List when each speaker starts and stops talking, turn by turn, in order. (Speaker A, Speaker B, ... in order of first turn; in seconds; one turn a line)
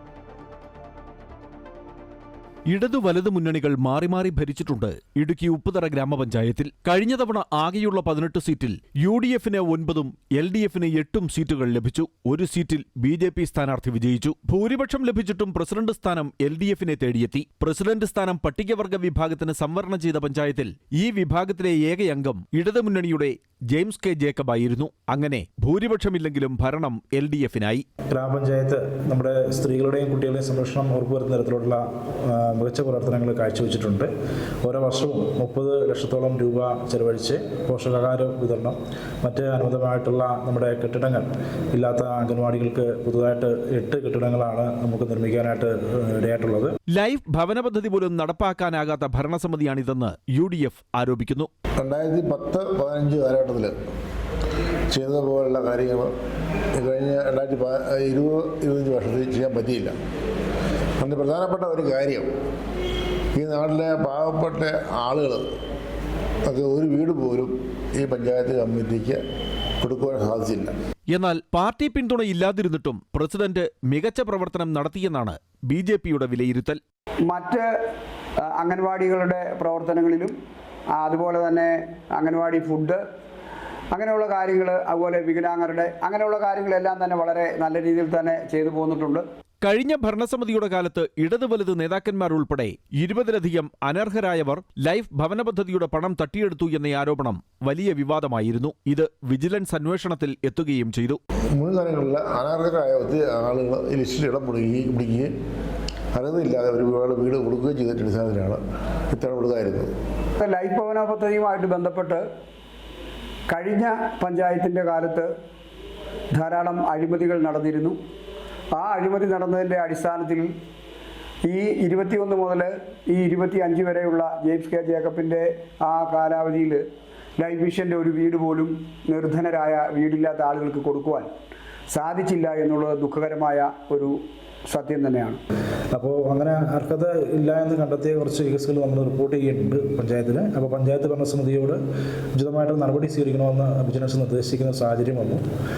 Speaker A: 2.7-27.9
Speaker B: 28.1-34.1
Speaker B: 34.6-46.7
Speaker A: 46.9-51.5
Speaker C: 51.8-53.7
Speaker C: 54.9-56.1
Speaker C: 56.8-60.0
Speaker C: 61.0-62.3
Speaker C: 63.4-65.5
Speaker C: 66.5-69.2
Speaker C: 69.8-70.7
Speaker A: 71.1-76.8
Speaker D: 77.3-77.7
Speaker D: 78.4-80.3
Speaker D: 80.9-83.0
Speaker D: 83.9-89.2
Speaker A: 89.6-101.2
Speaker C: 101.5-105.3
Speaker C: 106.2-109.9
Speaker D: 110.4-112.2
Speaker D: 113.5-115.3
Speaker D: 116.3-118.0
Speaker D: 118.7-120.5
Speaker D: 121.4-126.8
Speaker D: 127.4-131.3
Speaker D: 131.9-135.4
Speaker B: 135.9-141.8
Speaker B: 142.4-145.4